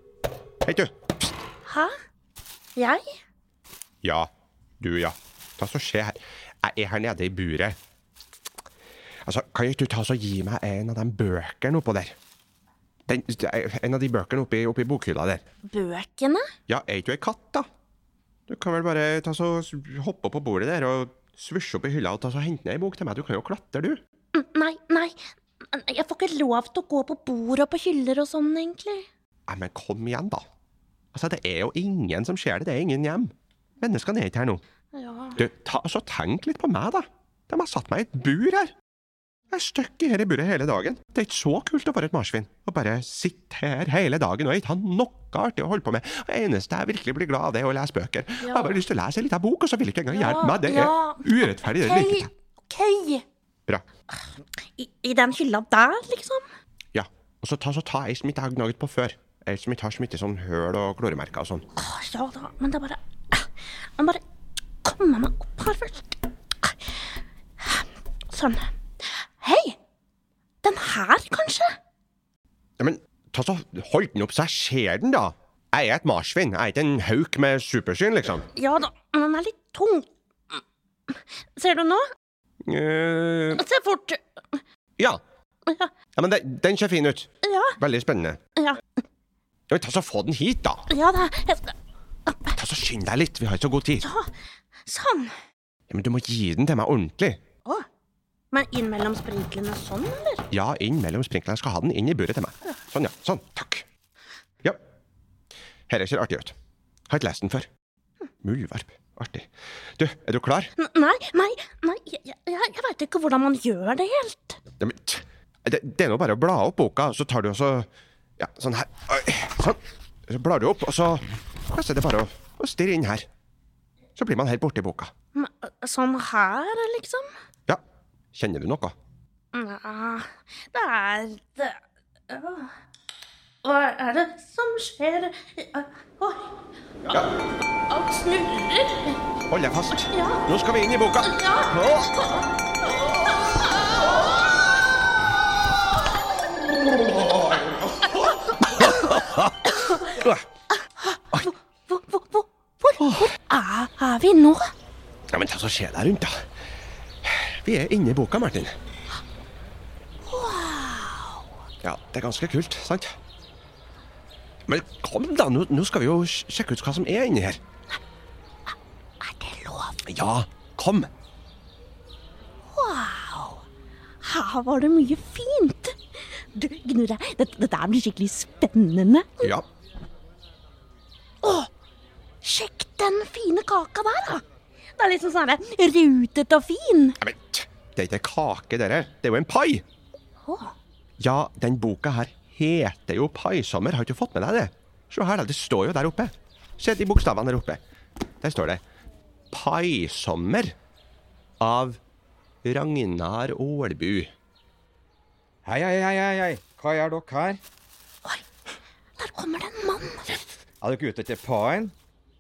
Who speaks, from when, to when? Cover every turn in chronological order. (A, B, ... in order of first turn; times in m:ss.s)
0:00.6-0:01.3 A
0:01.7-0:01.9 B
0:02.8-0:03.2 B
0:04.0-0:04.3 A
0:04.8-0:07.8 A
0:09.2-0:12.2 A
0:13.1-0:15.4 A
0:15.7-0:16.4 B
0:16.7-0:17.7 A
0:18.5-0:24.0 A
0:24.3-0:25.2 B
0:25.7-0:29.1 B
0:29.5-0:30.4 A
0:31.1-0:34.6 A
0:34.9-0:35.4 B
0:35.4-0:38.7 A
0:39.5-0:52.3 A
0:48.4-0:48.8 B
0:50.1-0:53.2 B
0:54.1-0:56.4 B
0:56.9-1:01.6 A
1:01.8-1:04.2 B
1:04.8-1:07.1 B
1:07.6-1:09.8 B
1:10.6-1:11.7 B
1:12.8-1:18.5 A
1:18.5-1:22.0 B
1:22.6-1:23.6 A
1:23.6-1:24.6 B
1:25.7-1:25.9 B
1:26.2-1:28.4 A
1:27.4-1:27.8 B
1:28.6-1:28.8 B
1:29.7-1:30.9 A
1:30.9-1:31.8 B
1:32.3-1:32.6 B
1:32.6-1:34.0 A
1:34.0-1:34.3 B
1:34.9-1:35.3 B
1:35.9-1:37.4 A
1:38.5-1:40.5 B
1:40.5-1:43.8 A
1:45.9-1:46.5 A
1:47.1-1:47.7 A
1:48.4-1:50.7 A
1:50.8-1:54.6 B
1:54.8-1:57.9 A
1:58.4-2:03.3 A
2:04.2-2:05.1 A
2:05.4-2:07.3 B
2:08.3-2:09.0 A
2:09.5-2:12.7 B
2:13.6-2:16.5 B
2:17.9-2:19.2 B
2:19.5-2:22.2 A
2:20.1-2:20.4 B
2:21.2-2:24.1 B
2:26.9-2:30.4 A
2:28.1-2:30.2 B
2:30.8-2:34.7 B
2:33.0-2:33.3 A
2:35.3-2:36.5 A
2:37.2-2:38.8 A
2:40.3-2:41.5 B
2:41.8-2:43.2 A
2:44.7-2:47.6 A
2:49.2-2:50.0 B
2:50.0-2:51.1 A
2:52.7-2:53.6 B
2:54.2-2:59.5 B
2:59.4-2:59.7 A
3:01.4-3:01.7 B
3:02.4-3:04.4 B
3:05.0-3:07.2 B
3:07.2-3:09.8 A
3:10.4-3:10.8 B
3:11.2-3:17.8 A
3:18.4-3:18.8 A
3:19.5-3:20.8 A
3:21.6-3:22.0 A
3:22.6-3:24.3 A
3:25.6-3:27.6 C
3:29.2-3:30.3 B
3:30.8-3:32.0 C